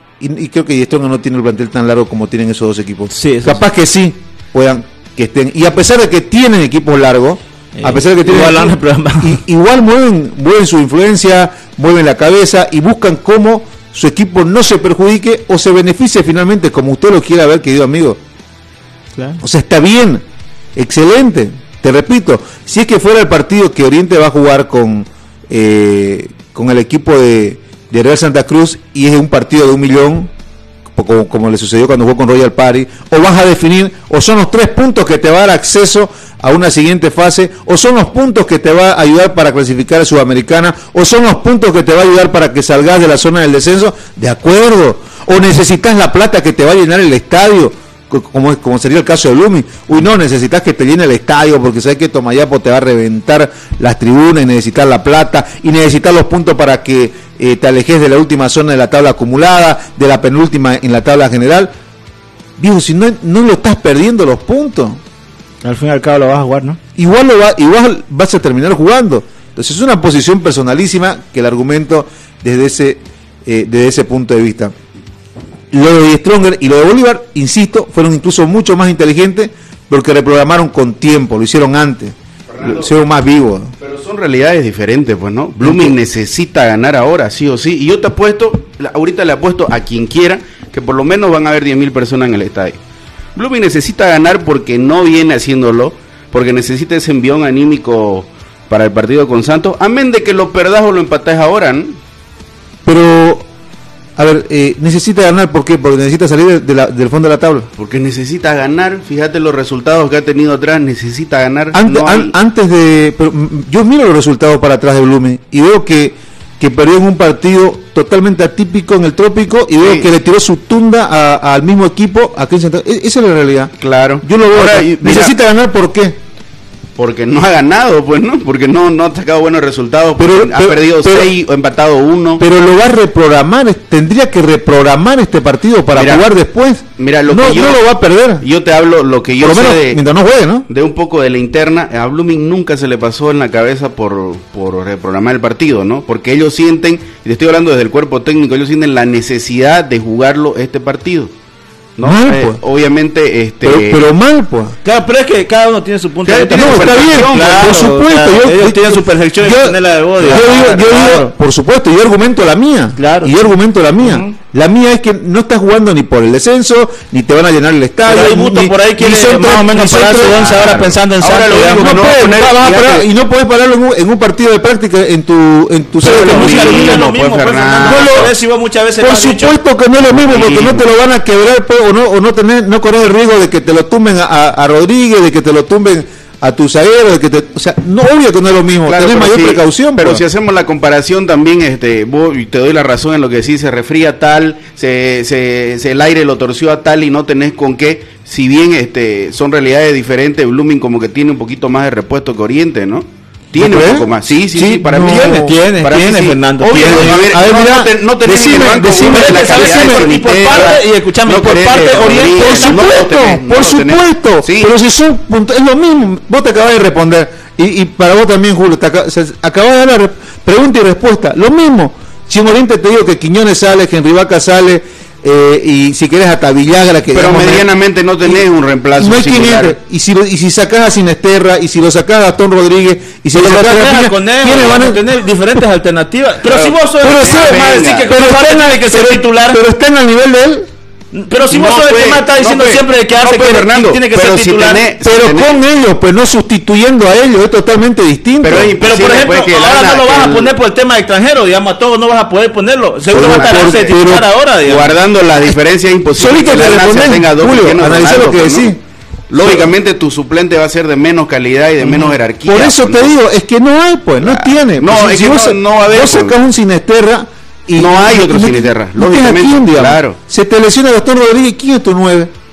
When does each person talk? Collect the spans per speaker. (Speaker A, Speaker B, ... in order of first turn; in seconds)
Speaker A: 0.2-18.2, 19.4-20.2, 20.8-30.3, 30.9-61.7, 62.6-65.0, 67.0-74.7, 75.7-83.7, 85.6-86.0, 102.8-103.5, 104.2-107.7, 111.7-126.2, 130.2-131.3, 132.4-138.5, 139.4-140.7, 152.0-152.6, 153.6-154.8, 156.5-170.6, 171.5-177.0, 177.8-178.3, 179.0-190.2, 203.6-205.5, 206.6-210.7, 212.3-227.7, 229.0-235.0, 237.0-240.7, 245.0-248.8, 253.1-254.3, 256.2-258.8, 259.4-259.7, 261.8-272.3
Speaker B: 3.1-3.6, 7.8-9.4, 19.2-19.4, 65.6-66.8, 154.8-161.3, 163.0-163.3, 168.0-172.3, 176.0-179.5, 204.6-207.2, 209.1-212.9, 233.3-239.6, 241.1-244.8, 248.8-254.9
Speaker C: 82.5-82.9, 83.8-92.8, 93.4-102.0, 107.8-112.3, 119.8-120.1, 123.8-125.4, 127.0-132.4, 136.0-136.3, 137.0-137.9, 138.4-140.1, 140.7-151.3, 152.0-154.1, 156.2-157.8, 160.3-160.9, 170.1-173.1, 176.0-178.3, 180.3-180.8, 188.9-214.7, 227.1-229.8, 236.5-238.1, 241.5-245.6, 248.4-250.6, 253.2-254.0, 254.6-258.7, 259.3-263.1, 264.2-266.4, 267.8-270.2